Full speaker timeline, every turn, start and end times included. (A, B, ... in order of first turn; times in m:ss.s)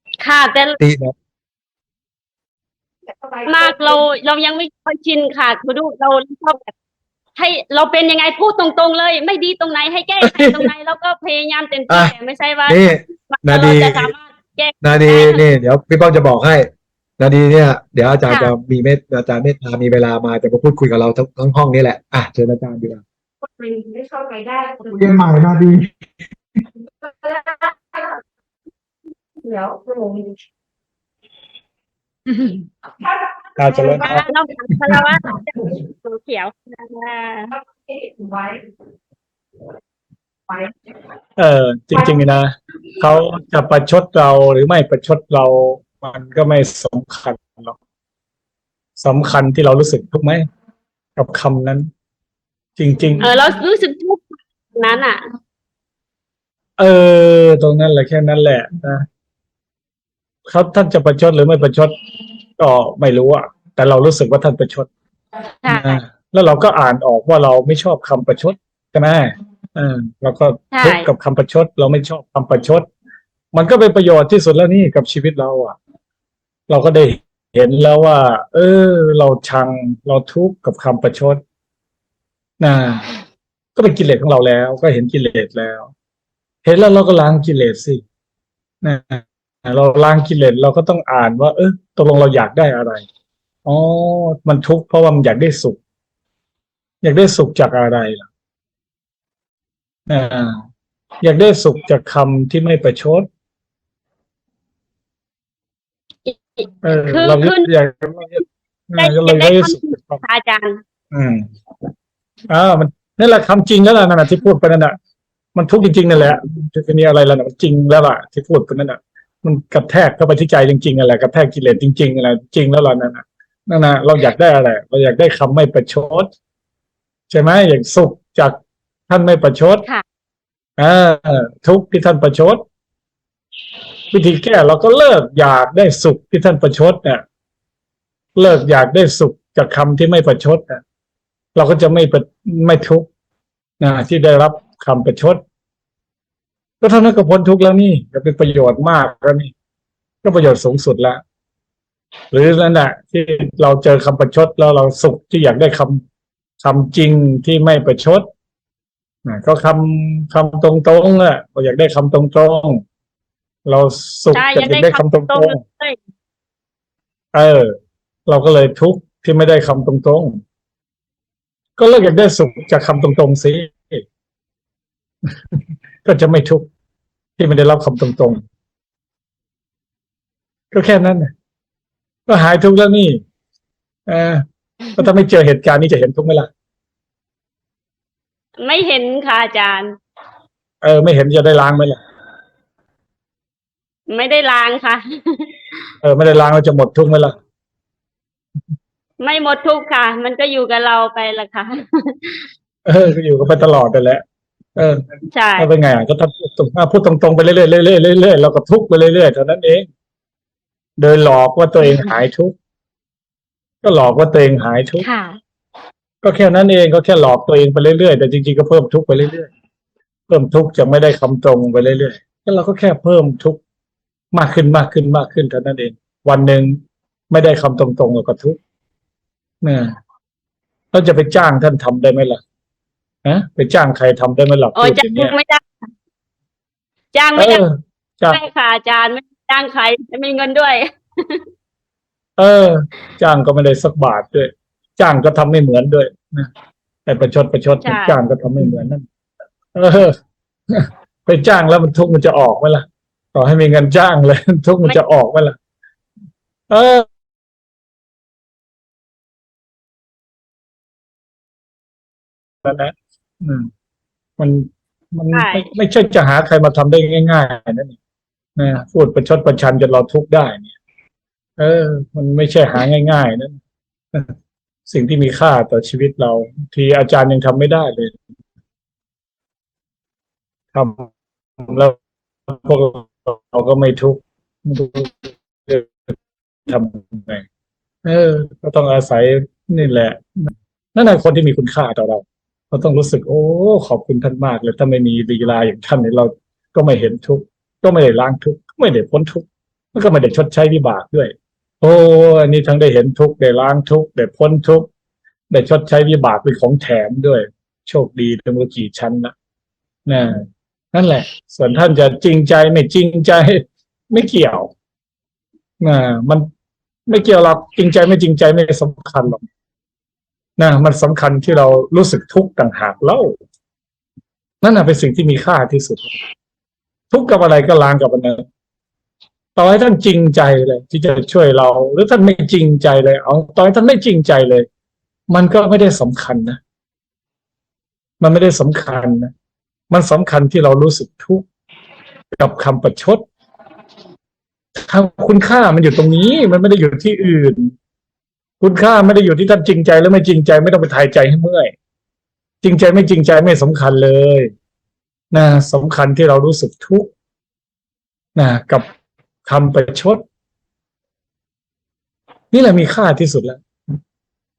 0:00.2-0:00.8 A
0:00.8-0:01.1 B
0:03.1-0:04.0 C
0:03.5-0:06.7 A
0:07.4-0:15.4 A
0:10.2-0:10.7 B
0:11.9-0:12.1 B
0:12.7-0:14.1 B
0:14.8-0:16.7 B
0:17.2-0:23.0 B
0:18.3-0:18.5 A
0:23.6-0:25.3 C
0:24.9-0:25.9 B
0:27.0-0:28.2 C
0:29.4-0:30.4 C
0:33.0-0:34.3 C
0:33.6-0:34.3 D
0:34.0-0:37.5 A
0:37.6-0:38.6 C
0:41.4-0:47.7 D
0:49.0-0:50.4 D
0:51.2-0:51.9 D
0:52.8-0:53.3 D
0:53.2-0:55.2 A
0:56.8-0:59.0 D
1:00.4-1:02.0 D
1:02.6-1:04.9 D
1:05.6-1:06.0 A
1:05.7-1:12.8 D
1:10.7-1:11.1 A
1:13.5-1:15.8 D
1:16.7-1:21.4 D
1:22.6-1:23.1 D
1:23.8-1:25.9 D
1:26.6-1:28.0 D
1:28.8-1:33.0 D
1:33.6-1:35.8 D
1:37.0-1:38.2 D
1:40.1-1:40.6 D
1:41.2-1:43.3 D
1:46.2-1:47.7 A
1:46.8-1:50.2 D
1:49.0-1:50.8 A
1:51.1-1:51.5 D
1:52.5-1:55.0 D
1:55.5-2:06.3 D
2:07.3-2:08.6 D
2:09.1-2:09.8 D
2:10.8-2:12.6 D
2:14.1-2:17.2 D
2:18.4-2:20.8 D
2:21.5-2:23.1 D
2:23.8-2:25.4 D
2:26.8-2:29.5 D
2:30.2-2:31.2 D
2:32.3-2:36.0 D
2:36.6-2:38.3 D
2:39.2-2:42.8 D
2:43.6-2:45.6 D
2:44.3-2:46.0 A
2:47.3-2:47.7 D
2:48.3-2:50.4 D
2:51.8-2:54.0 D
2:56.0-2:56.7 D
2:57.4-2:58.4 D
3:00.7-3:01.3 D
3:02.3-3:03.2 D
3:04.1-3:04.4 D
3:05.0-3:06.5 D
3:08.6-3:10.0 A
3:10.8-3:12.0 D
3:14.1-3:15.5 A
3:16.0-3:17.3 D
3:19.2-3:22.5 A
3:22.8-3:24.2 D
3:24.8-3:25.0 D
3:25.3-3:25.7 A
3:25.6-3:29.8 D
3:31.0-3:32.5 D
3:33.8-3:35.0 D
3:35.0-3:35.4 A
3:36.2-3:39.5 D
3:40.3-3:43.6 D
3:44.3-3:48.6 D
3:49.6-3:49.9 D
3:50.9-3:52.4 D
3:53.2-3:55.3 D
3:54.8-3:55.6 A
3:57.1-3:57.6 A
3:57.4-3:58.4 D
3:58.3-4:01.4 A
4:02.4-4:06.5 D
4:07.0-4:09.0 D
4:07.8-4:08.2 A
4:09.7-4:10.2 D
4:10.7-4:15.5 D
4:16.7-4:17.0 D
4:22.6-4:23.7 D
4:24.4-4:28.0 D
4:25.3-4:25.6 A
4:28.6-4:30.7 D
4:31.6-4:33.6 D
4:34.9-4:38.2 D
4:40.7-4:41.1 D
4:41.6-4:41.9 D
4:42.5-4:46.2 D
4:46.7-4:47.4 D
4:48.0-5:04.9 D
5:05.5-5:09.3 D
5:10.1-5:14.7 D
5:15.8-5:16.5 D
5:17.1-5:19.4 D
5:20.6-5:23.3 D
5:24.6-5:26.1 D
5:27.1-5:28.4 D
5:29.6-5:34.6 D
5:35.3-5:36.6 D
5:38.2-5:39.3 D
5:39.9-5:41.4 D
5:42.3-5:43.2 D
5:44.8-5:47.7 D
5:48.6-5:51.7 D
5:52.6-5:54.5 D
5:55.3-5:57.1 D
5:58.4-5:58.9 D
5:59.4-6:00.2 D
6:02.5-6:03.6 D